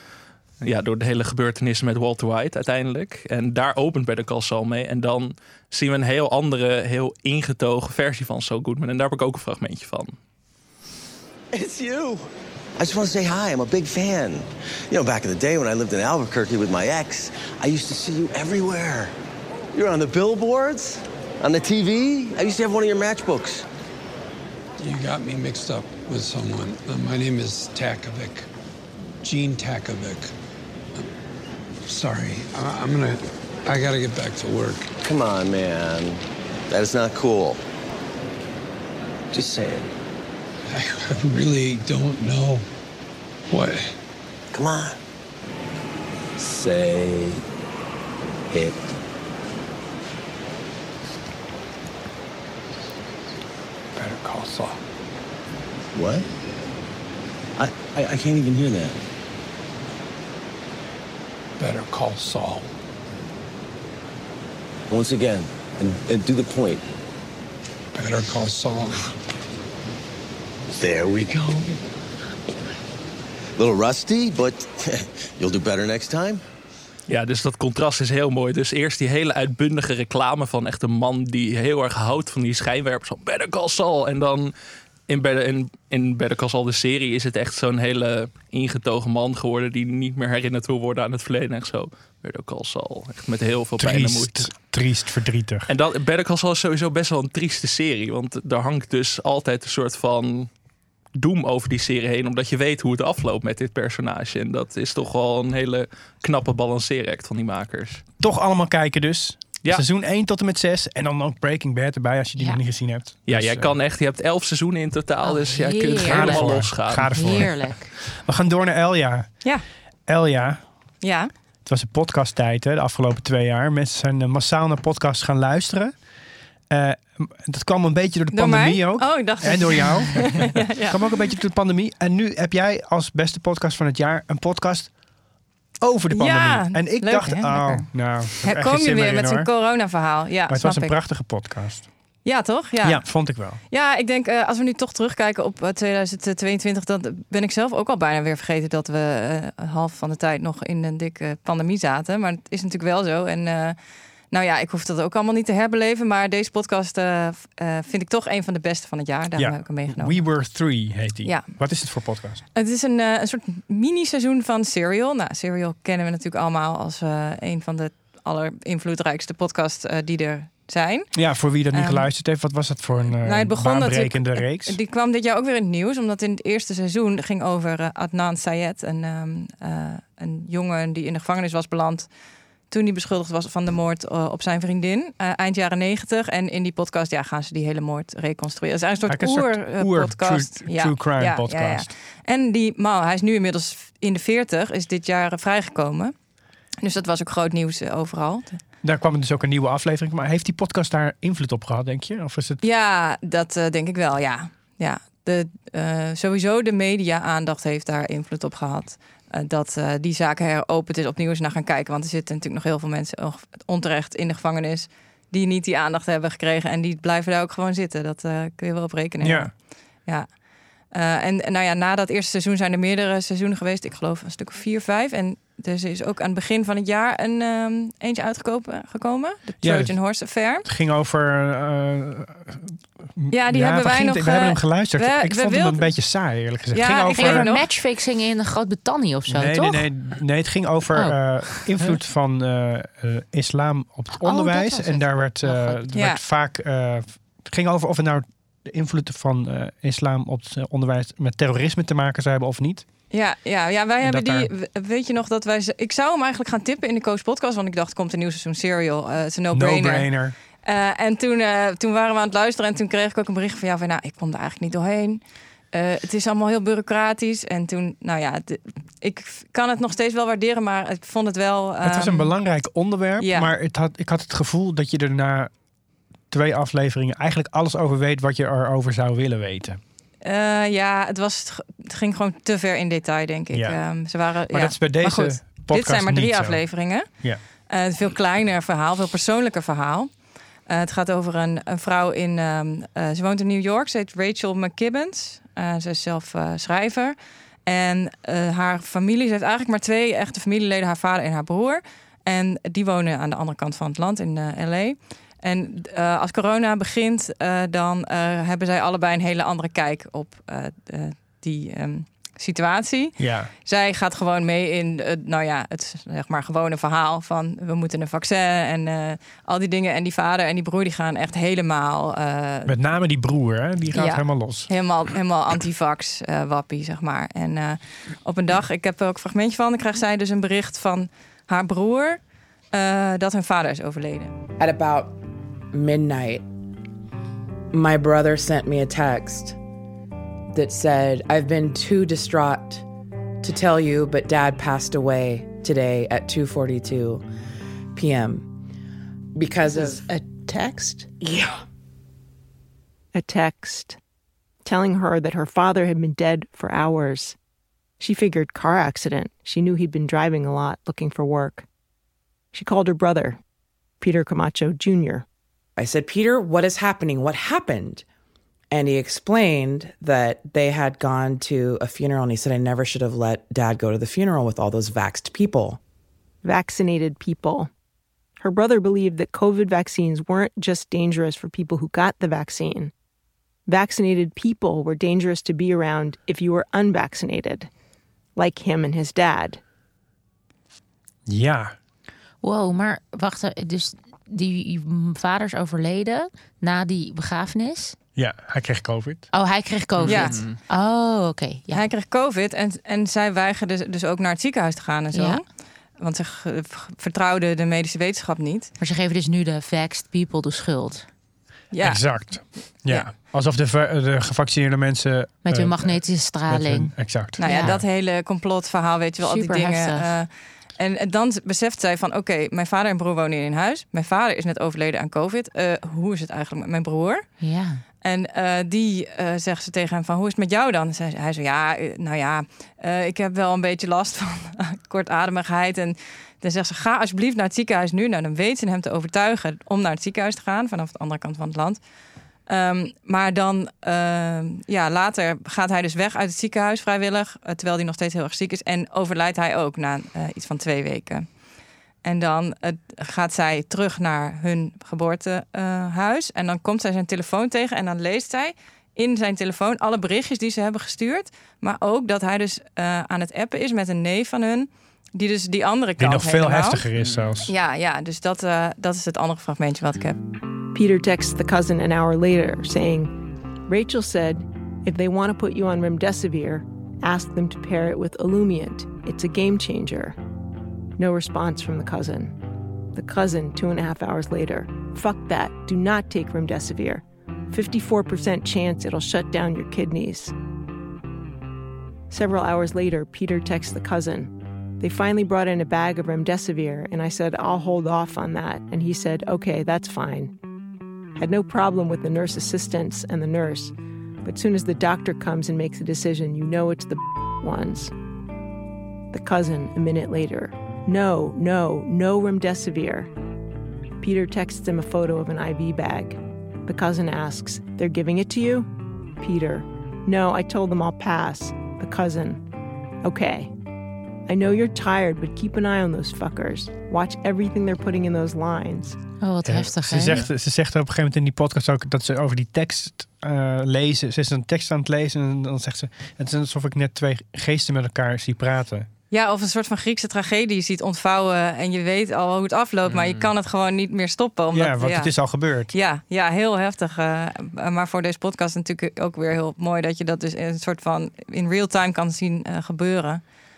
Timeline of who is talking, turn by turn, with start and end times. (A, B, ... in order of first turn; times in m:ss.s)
0:00.6-0:10.2 A
0:11.5-0:12.3 B
0:12.8-0:19.1 B
0:19.7-0:23.6 B
0:24.8-0:28.5 C
0:29.2-0:30.3 C
0:31.8-0:34.9 C
0:35.0-0:37.6 B
0:39.3-0:39.9 B
0:40.7-0:42.6 C
0:43.5-0:44.0 C
0:44.5-0:45.0 B
0:46.4-0:47.4 B
0:48.5-0:48.8 B
0:54.0-0:54.8 C
0:55.9-0:56.2 B
0:57.6-0:59.0 B
1:01.6-1:02.7 C
1:04.9-1:06.8 B
1:08.0-1:09.1 C
1:10.7-1:11.8 B
1:13.6-1:16.4 B
1:17.1-1:24.5 A
1:25.1-1:34.5 A
1:33.8-1:35.7 D
1:35.7-1:40.5 A
1:41.1-1:48.0 A
1:48.2-1:53.8 D
1:53.3-1:57.5 A
1:55.2-1:57.9 E
1:56.0-1:59.4 D
2:00.1-2:00.6 D
2:01.0-2:01.3 F
2:01.6-2:05.9 D
2:06.7-2:15.0 D
2:08.3-2:11.1 F
2:15.8-2:19.5 D
2:16.1-2:17.9 F
2:18.4-2:21.0 F
2:20.5-2:21.9 D
2:22.2-2:40.2 F
2:22.8-2:23.6 D
2:39.4-2:42.4 D
2:41.2-2:41.7 F
2:42.5-2:52.1 F
2:51.1-2:54.8 D
2:53.2-3:02.1 F
3:02.7-3:16.2 F
3:09.1-3:11.9 D
3:16.8-3:18.6 F
3:18.8-3:22.6 D
3:22.6-3:50.6 F
3:39.2-3:39.5 D
3:49.6-3:50.0 D
3:50.6-3:57.5 D
3:53.3-3:55.9 F
3:56.7-3:57.6 F
3:57.1-3:59.9 E
3:59.3-4:12.8 D
4:01.0-4:01.6 E
4:04.2-4:05.8 E
4:05.9-4:06.2 F
4:13.1-4:20.1 F
4:14.0-4:14.5 D
4:19.5-4:20.4 D
4:20.6-4:32.3 F
4:31.8-4:35.5 D
4:33.2-4:33.5 F
4:36.3-4:39.8 D
4:40.2-5:22.7 F
4:43.5-4:43.8 D
4:44.5-4:47.4 D
5:13.2-5:13.5 D
5:22.7-5:24.7 D
5:23.9-5:34.3 F
5:34.6-5:35.2 G
5:35.7-5:36.4 G
5:37.7-5:39.6 G
5:40.5-5:42.8 G
5:43.4-5:47.2 G
5:47.9-5:48.5 G
5:49.3-5:51.5 G
5:53.1-5:54.0 H
5:54.6-5:57.4 H
5:58.0-6:01.6 H
6:02.5-6:03.4 H
6:04.0-6:05.2 H
6:05.8-6:08.0 G
6:08.7-6:15.8 G
6:16.4-6:17.7 H
6:18.4-6:22.9 H
6:23.7-6:27.7 H
6:28.4-6:29.6 H
6:31.3-6:31.8 D
6:32.4-6:38.0 E
6:38.2-6:39.3 D
6:39.3-6:41.8 E
6:40.0-6:40.6 A
6:40.0-6:40.4 F
6:41.7-6:45.4 F
6:45.1-6:45.4 E
6:46.0-6:48.7 F
6:48.8-6:51.1 E
6:51.7-6:53.0 F
6:51.8-6:57.8 D
6:55.5-6:56.9 E
6:57.4-7:07.2 F
6:57.4-6:57.8 E
6:59.2-7:00.1 E
7:07.4-7:07.8 E
7:08.0-7:21.8 F
7:22.5-7:31.4 F
7:32.0-7:46.8 F
7:46.0-7:47.5 D
7:47.0-7:47.3 A
7:47.4-7:50.2 F
7:50.7-8:00.2 H
8:01.0-8:02.4 H
8:02.9-8:10.3 H
8:12.1-8:20.3 H
8:21.1-8:23.7 H
8:24.2-8:27.9 H
8:29.1-8:33.1 H
8:34.0-8:42.4 H
8:43.0-8:43.5 H
8:44.2-8:49.0 H
8:49.2-8:50.2 E
8:49.4-8:58.9 D
8:59.1-9:05.1 F
9:02.8-9:03.3 A
9:04.5-9:05.7 D
9:05.7-9:13.3 F